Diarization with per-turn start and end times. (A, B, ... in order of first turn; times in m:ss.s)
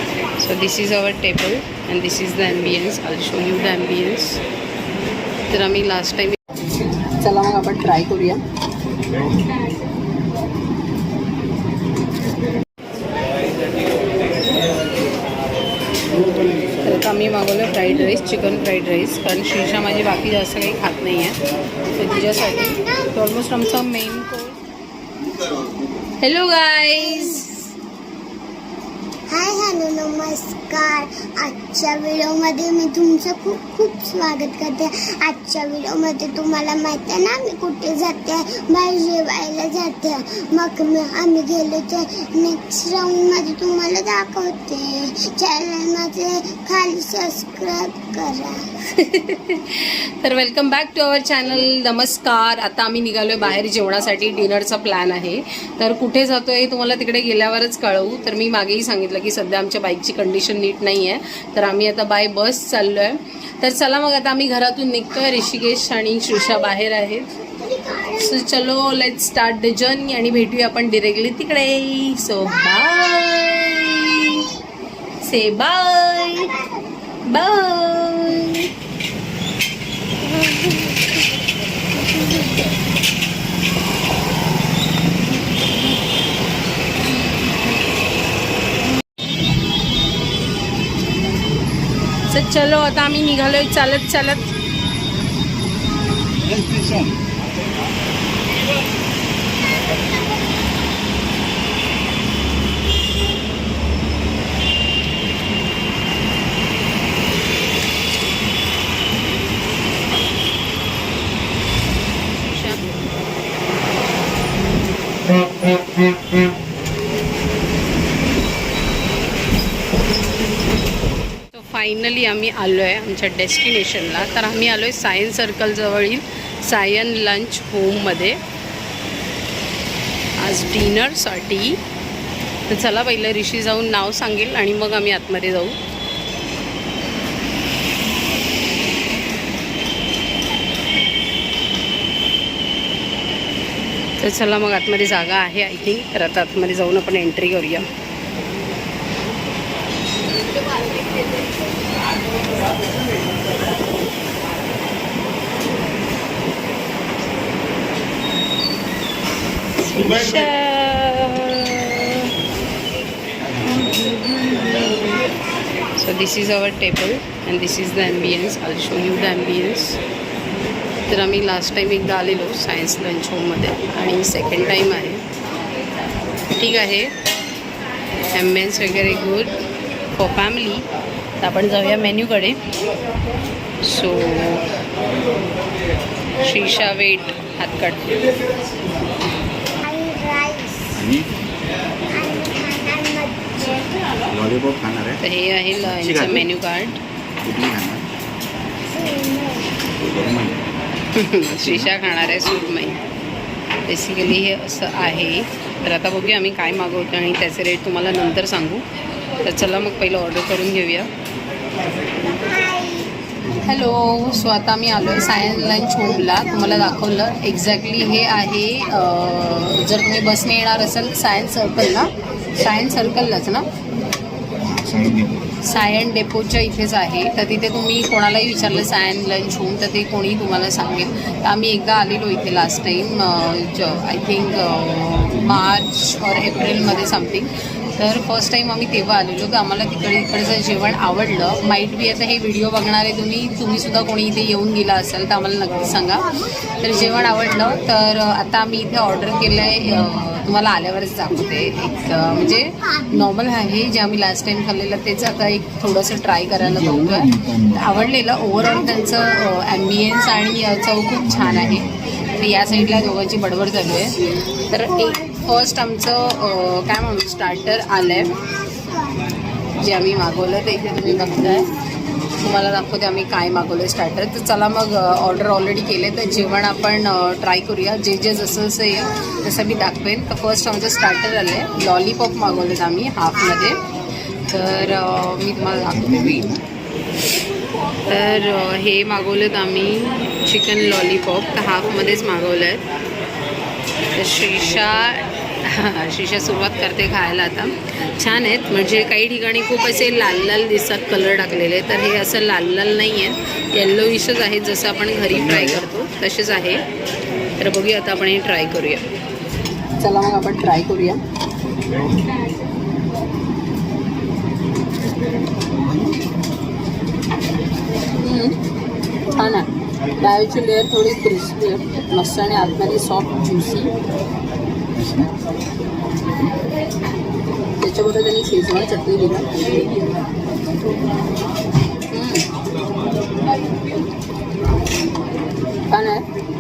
0:00.4-0:04.4 A
0:05.5-0:06.4 A
0:07.2-0:08.4 A
0:16.8-0:21.4 A
0:21.9-0:24.6 A
0:26.2-0:27.7 A
0:27.0-0:27.4 B
0:29.3-0:48.6 B
0:48.9-1:07.3 A
1:07.5-1:08.4 B
1:08.2-1:14.5 A
1:15.2-1:16.6 A
1:16.3-1:16.8 B
1:17.3-1:18.7 A
1:32.3-1:34.5 A
1:36.5-1:37.1 C
1:52.4-1:52.8 A
2:01.5-2:08.4 A
2:10.4-2:11.8 A
2:12.7-2:15.8 A
2:24.2-2:27.9 A
2:39.8-2:42.3 A
2:43.8-2:45.2 A
2:46.0-2:50.0 A
2:51.1-2:55.2 A
2:56.6-2:57.1 A
2:58.3-2:59.6 A
3:00.1-3:00.8 A
3:01.4-3:02.6 A
3:03.8-3:04.7 A
3:06.4-3:08.1 A
3:09.8-3:11.0 B
3:11.0-3:11.3 C
3:12.1-3:13.7 B
3:14.3-3:15.2 C
3:15.2-3:17.0 A
3:15.8-3:16.5 C
3:17.4-3:18.0 C
3:18.9-3:19.8 B
3:20.0-3:20.7 C
3:21.1-3:23.0 A
3:21.5-3:21.9 C
3:23.9-3:28.8 A
3:29.4-3:31.1 A
3:32.3-3:33.1 B
3:33.6-3:43.7 A
3:44.7-3:45.6 C
3:45.6-4:28.3 A
3:55.4-3:55.7 C
4:09.8-4:10.3 C
4:16.6-4:18.0 C
4:21.2-4:22.0 C
4:24.1-4:25.5 B
4:28.3-4:29.2 B
4:29.8-4:31.7 A
4:32.4-4:43.8 A
4:44.5-4:46.6 A
4:45.9-4:46.6 C
4:48.1-4:52.8 A
4:54.2-5:06.8 A
5:05.3-5:05.8 C
5:07.6-5:09.0 A
5:10.0-5:11.2 A
5:18.2-5:18.6 A
5:19.3-5:23.9 A
5:25.0-5:25.3 C
5:27.8-5:29.7 A
5:32.1-5:32.5 A
5:35.9-5:36.3 A